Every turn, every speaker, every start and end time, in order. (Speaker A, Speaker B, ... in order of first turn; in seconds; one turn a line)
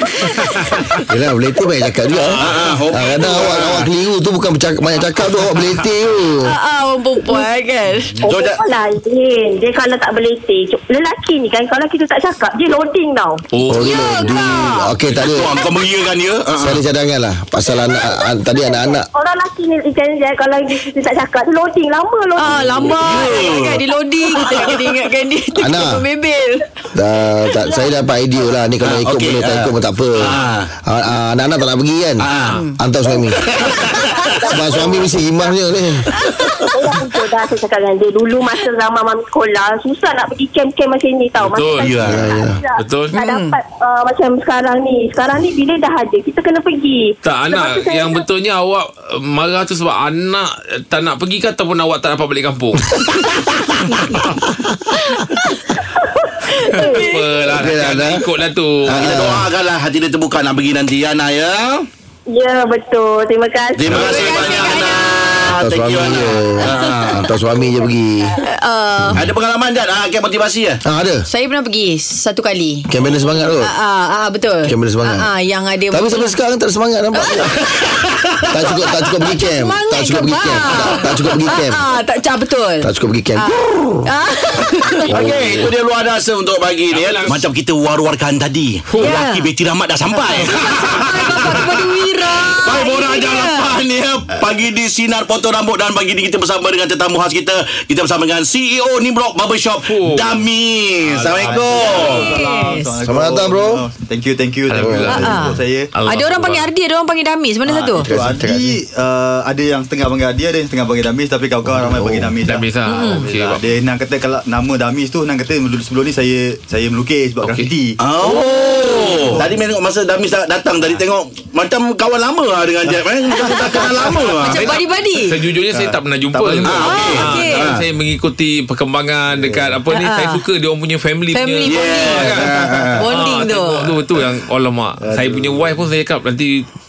Speaker A: 0.2-1.0
Speaker B: 1.1-6.5
Speaker A: 2.1-2.8
Speaker C: 2.4-3.9
Speaker D: 6.4-8.2
Speaker C: 8.2-8.6
Speaker E: 8.2-13.4
Speaker A: 13.5-14.4
Speaker B: 13.7-15.5
Speaker D: 13.7-14.9
Speaker C: 15.1-16.8
Speaker B: 16.6-19.1
Speaker E: 17.8-23.5
Speaker D: 22.4-26.7
Speaker C: 22.9-23.8
Speaker E: 24.3-24.8
Speaker B: 25.6-26.0
Speaker B: 26.9-33.5
Speaker C: 28.8-30.7
Speaker C: 32.2-32.6
Speaker D: 32.5-32.8
Speaker C: 33.4-34.2
Speaker E: 33.4-35.3
Speaker B: 34.5-36.1
Speaker D: 36.2-36.5
Speaker E: 36.6-48.2
Speaker A: 41.4-42.0
Speaker C: 41.8-42.3
Speaker B: 42.1-42.6
Speaker A: 42.8-43.1
Speaker D: 43.1-43.6
Speaker A: 47.2-53.1
Speaker E: 55.9-57.1
Speaker D: 56.5-57.3
Speaker A: 56.7-59.0
Speaker B: 57.5-58.3
Speaker C: 58.9-61.9
Speaker B: 58.9-59.5
Speaker E: 62.3-64.8
Speaker C: 63.8-67.3
Speaker D: 63.9-67.2
Speaker B: 65.6-68.4
Speaker D: 68.4-69.3
Speaker C: 69.1-70.8
Speaker B: 70.8-71.2
Speaker D: 71.2-76.4
Speaker B: 72.9-73.7
Speaker B: 74.6-75.3
Speaker B: 75.9-77.6
Speaker D: 77.1-77.5
Speaker B: 78.5-81.8
Speaker D: 78.6-85.2
Speaker B: 82.8-84.0
Speaker B: 85.1-85.7
Speaker C: 85.1-91.8
Speaker A: 86.9-87.5
Speaker A: 88.9-89.2
Speaker D: 89.0-89.5
Speaker D: 90.1-93.8
Speaker C: 92.4-102.4
Speaker A: 99.8-100.4
Speaker A: 101.0-101.8
Speaker F: 101.3-105.9
Speaker D: 102.0-103.0
Speaker B: 103.0-103.8
Speaker A: 104.7-106.7
Speaker B: 104.8-105.0
Speaker D: 105.1-108.1
Speaker F: 107.6-118.0
Speaker B: 108.0-108.8
Speaker B: 111.7-112.4
Speaker A: 112.5-113.6
Speaker D: 112.9-113.3
Speaker A: 117.4-117.7
Speaker C: 118.0-124.8
Speaker F: 122.9-124.1
Speaker D: 123.3-125.4
Speaker A: 124.5-136.7
Speaker F: 125.7-127.3
Speaker C: 126.6-127.9
Speaker D: 126.8-127.7
Speaker F: 129.3-129.8
Speaker D: 129.9-130.4
Speaker D: 131.3-134.0
Speaker C: 131.6-133.0
Speaker F: 135.0-135.7